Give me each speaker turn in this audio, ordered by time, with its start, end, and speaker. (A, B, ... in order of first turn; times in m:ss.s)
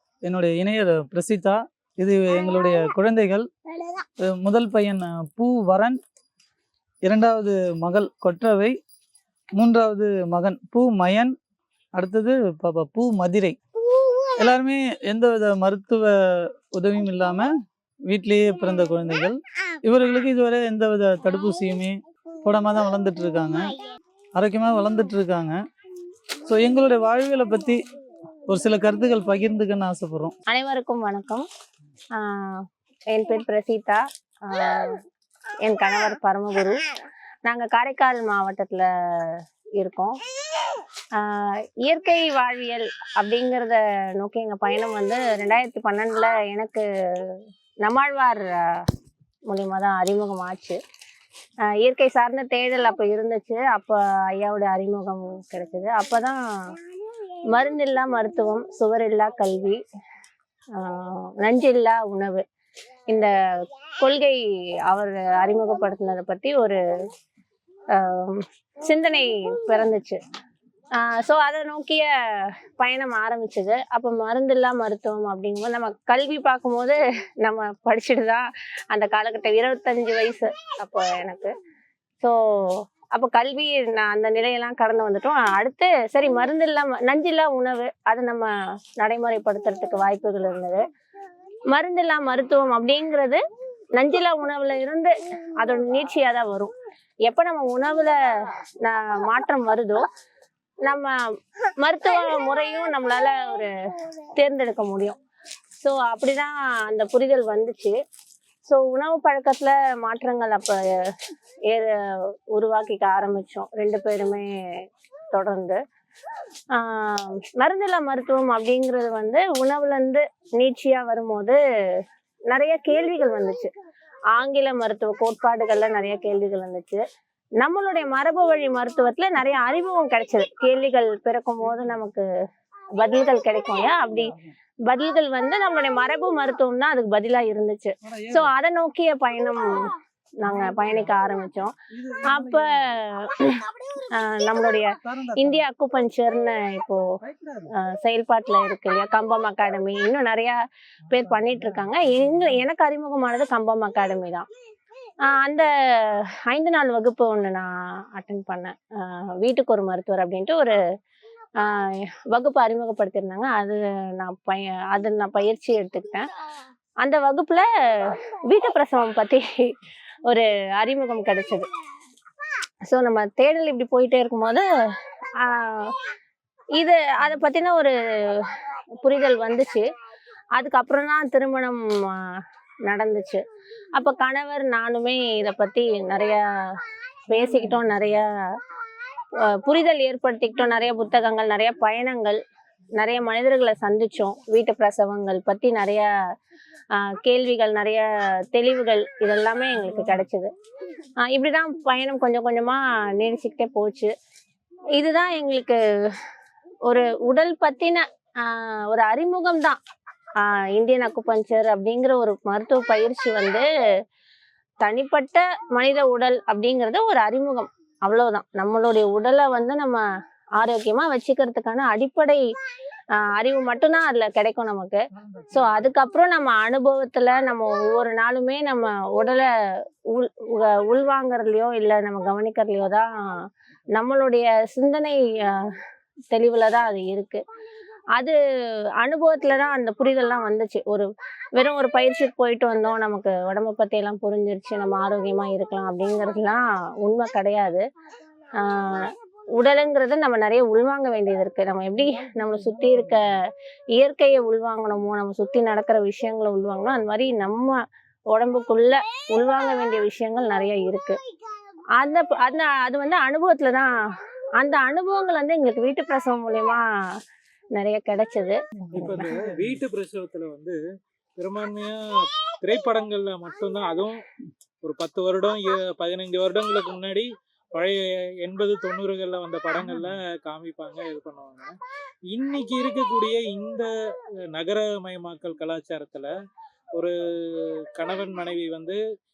0:00.3-0:03.5 A
0:04.2-0:06.0 A
0:07.1-0:08.7 A
0:09.6-0:11.3 A
0:12.0-0:13.6 A
0:14.4-0:16.1 A
0:16.7-0:17.5 A
0:18.1-0:23.7 A
0:24.4-0:25.6 A
0:26.4-0:27.8 A
0:28.5-0:30.3 A
0:30.5-0:31.5 B
0:32.2-0:35.0 B
0:35.6-0:36.8 B
0:37.5-0:40.2 B
0:41.2-0:48.9 B
0:49.5-0:50.8 B
0:51.7-0:56.8 B
0:57.5-0:59.8 B
1:00.8-1:02.4 B
1:04.0-1:06.8 B
1:07.9-1:10.2 B
1:11.0-1:21.5 B
1:22.2-1:30.8 B
1:31.7-1:33.4 B
1:34.0-1:36.7 B
1:37.3-1:38.2 B
1:38.8-1:40.0 B
1:40.9-1:41.1 B
1:41.8-1:43.7 B
1:44.4-1:45.2 B
1:45.8-1:48.0 B
1:48.6-1:51.1 B
1:51.7-1:55.8 B
1:56.7-2:03.7 B
2:04.3-2:07.0 B
2:07.6-2:12.2 B
2:11.7-2:12.0 A
2:13.0-2:14.4 B
2:14.9-2:21.7 B
2:18.0-2:18.5 A
2:20.4-2:21.1 A
2:21.9-2:23.0 A
2:22.3-2:27.0 B
2:25.0-2:25.7 A
2:27.2-2:27.7 A
2:27.8-2:30.6 B
2:31.1-2:32.5 A
2:31.1-2:34.5 B
2:35.3-2:40.8 B
2:41.6-2:46.3 B
2:47.0-2:49.4 B
2:50.3-2:51.7 B
2:52.9-2:54.7 B
2:55.4-2:56.0 B
2:56.8-2:58.5 B
2:59.0-2:59.9 B
3:00.6-3:03.4 B
3:04.0-3:06.4 B
3:07.3-3:08.3 B
3:09.5-3:12.4 B
3:13.0-3:16.1 B
3:16.9-3:20.5 B
3:19.8-3:20.2 A
3:21.2-3:24.1 B
3:25.0-3:26.2 B
3:26.9-3:29.8 B
3:30.4-3:33.6 B
3:34.8-3:40.0 B
3:40.6-3:42.4 B
3:43.1-3:45.0 B
3:45.2-3:45.9 A
3:45.5-3:55.8 B
3:56.3-3:57.4 B
3:59.0-4:07.8 B
4:08.6-4:13.4 B
4:12.6-4:13.2 A
4:14.0-4:17.8 B
4:18.3-4:21.2 B
4:22.0-4:23.9 B
4:24.6-4:26.8 B
4:27.8-4:29.3 B
4:28.8-4:29.8 A
4:29.0-4:30.8 C
4:31.4-4:34.2 C
4:34.8-4:41.8 C
4:39.8-4:40.2 A
4:42.3-4:43.9 C
4:44.5-4:46.3 C
4:47.0-4:49.0 C